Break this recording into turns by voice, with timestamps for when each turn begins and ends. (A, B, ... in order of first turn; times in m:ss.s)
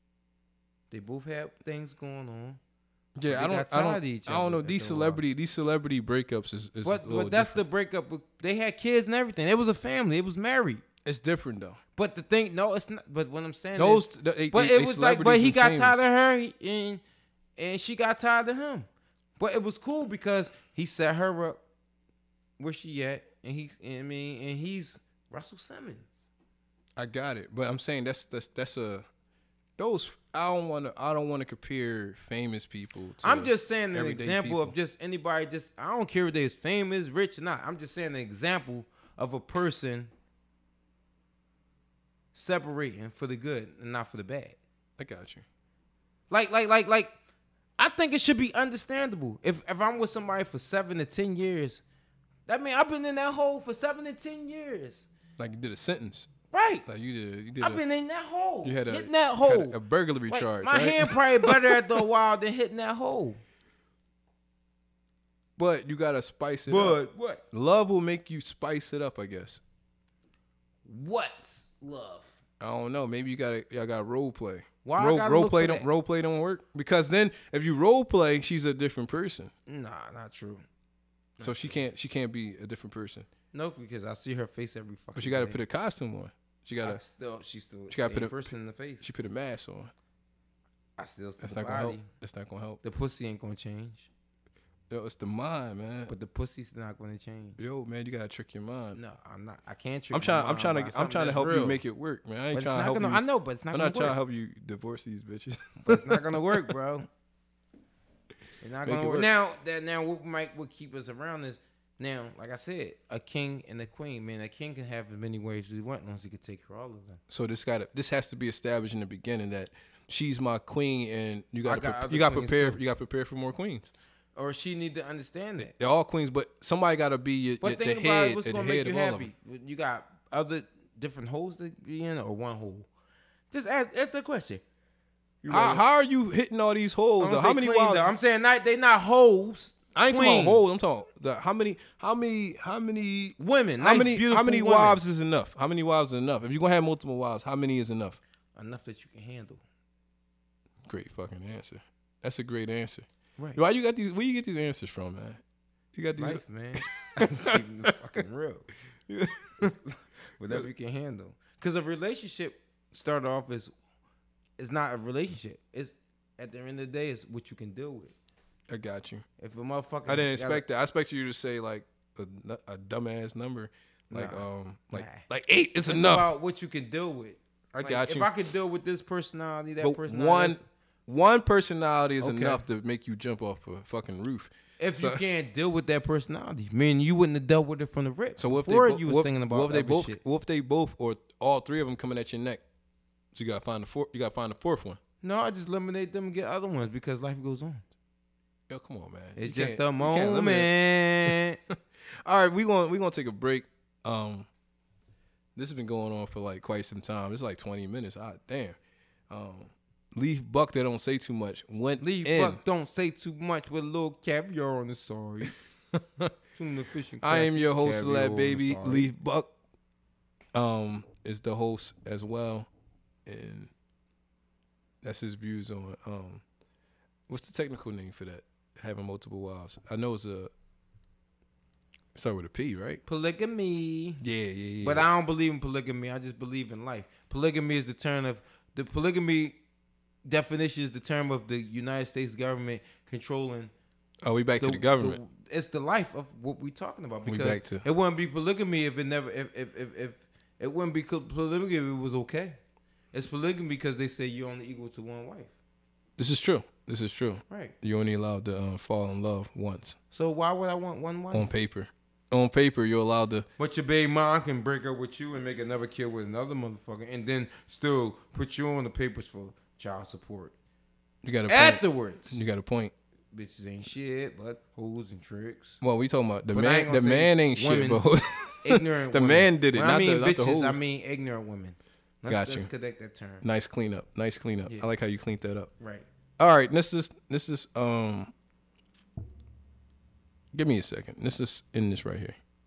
0:00.9-0:02.6 A
0:03.2-0:07.6 B
0:03.3-0:05.2 A
0:06.8-0:10.8 A
0:11.0-0:11.8 B
0:12.0-0:17.0 A
0:13.8-0:16.0 B
0:17.6-0:18.9 A
0:19.4-0:21.6 A
0:22.6-0:26.3 A
0:27.0-0:29.0 B
0:29.8-0:34.7 B
0:33.2-0:40.1 A
0:42.3-0:44.6 A
0:45.0-0:45.4 B
0:46.3-0:47.1 A
0:47.8-0:51.8 A
0:52.5-0:55.1 A
0:55.4-0:56.3 B
0:56.5-0:56.8 A
0:56.8-0:57.8 B
0:57.6-0:59.8 A
0:58.6-1:01.8 B
1:00.3-1:03.4 A
1:05.6-1:07.0 B
1:06.7-1:07.4 A
1:07.5-1:09.6 B
1:10.8-1:12.4 A
1:12.6-1:19.5 B
1:14.8-1:15.8 A
1:19.7-1:20.6 A
1:21.4-1:21.8 A
1:21.4-1:23.3 B
1:23.5-1:25.6 A
1:25.1-1:27.0 B
1:26.8-1:29.1 A
1:27.9-1:29.9 B
1:31.0-1:32.1 A
1:31.4-1:32.8 B
1:32.8-1:34.1 A
1:34.9-1:36.1 B
1:36.1-1:37.6 A
1:37.6-1:39.0 B
1:38.9-1:41.8 A
1:40.1-1:46.5 B
1:42.5-1:44.2 A
1:45.8-1:47.1 A
1:48.6-1:57.2 A
1:48.8-1:49.3 B
1:57.3-2:03.9 B
2:01.6-2:02.8 A
2:04.4-2:05.7 A
2:05.6-2:09.3 B
2:07.6-2:12.9 A
2:13.5-2:14.6 A
2:15.4-2:15.8 A
2:15.5-2:18.1 B
2:17.2-2:20.8 A
2:19.9-2:28.2 B
2:23.4-2:25.0 A
2:28.6-2:29.6 A
2:30.8-2:33.0 B
2:33.6-2:35.4 B
2:35.9-2:37.9 B
2:36.2-2:38.7 A
2:39.1-2:39.7 B
2:39.6-2:43.7 A
2:44.6-2:48.1 A
2:48.7-2:49.2 B
2:49.4-2:50.6 A
2:50.1-2:56.3 B
2:54.1-2:55.2 A
2:55.8-3:00.6 A
2:57.8-2:58.3 B
2:59.8-3:05.2 B
3:02.2-3:02.6 A
3:04.8-3:10.2 A
3:08.4-3:12.6 B
3:13.3-3:15.0 B
3:15.2-3:17.8 A
3:18.7-3:20.7 B
3:19.4-3:21.6 A
3:21.2-3:24.5 B
3:25.6-3:28.8 B
3:29.3-3:32.6 B
3:32.0-3:35.5 A
3:35.9-3:36.3 B
3:36.6-3:39.1 A
3:37.2-3:39.5 B
3:40.5-3:42.7 B
3:43.2-3:43.7 B
3:45.0-3:46.4 B
3:47.3-3:50.5 B
3:52.1-3:53.0 B
3:53.1-3:54.2 A
3:54.2-3:55.1 B
3:54.8-3:59.6 A
4:00.2-4:03.7 A
4:04.2-4:05.2 B
4:04.6-4:12.6 A
4:07.2-4:07.8 B
4:13.1-4:15.5 A
4:16.2-4:20.0 B
4:17.5-4:17.7 A
4:20.1-4:21.5 A
4:21.3-4:23.5 B
4:23.6-4:30.5 A
4:31.2-4:32.9 B
4:31.5-4:32.4 A
4:33.3-4:35.8 A
4:35.8-4:40.8 B
4:36.5-4:38.0 A
4:38.6-4:43.4 A
4:42.3-4:42.7 B
4:43.4-4:45.7 B
4:45.8-4:46.1 A
4:46.4-4:48.3 B
4:50.5-4:52.4 B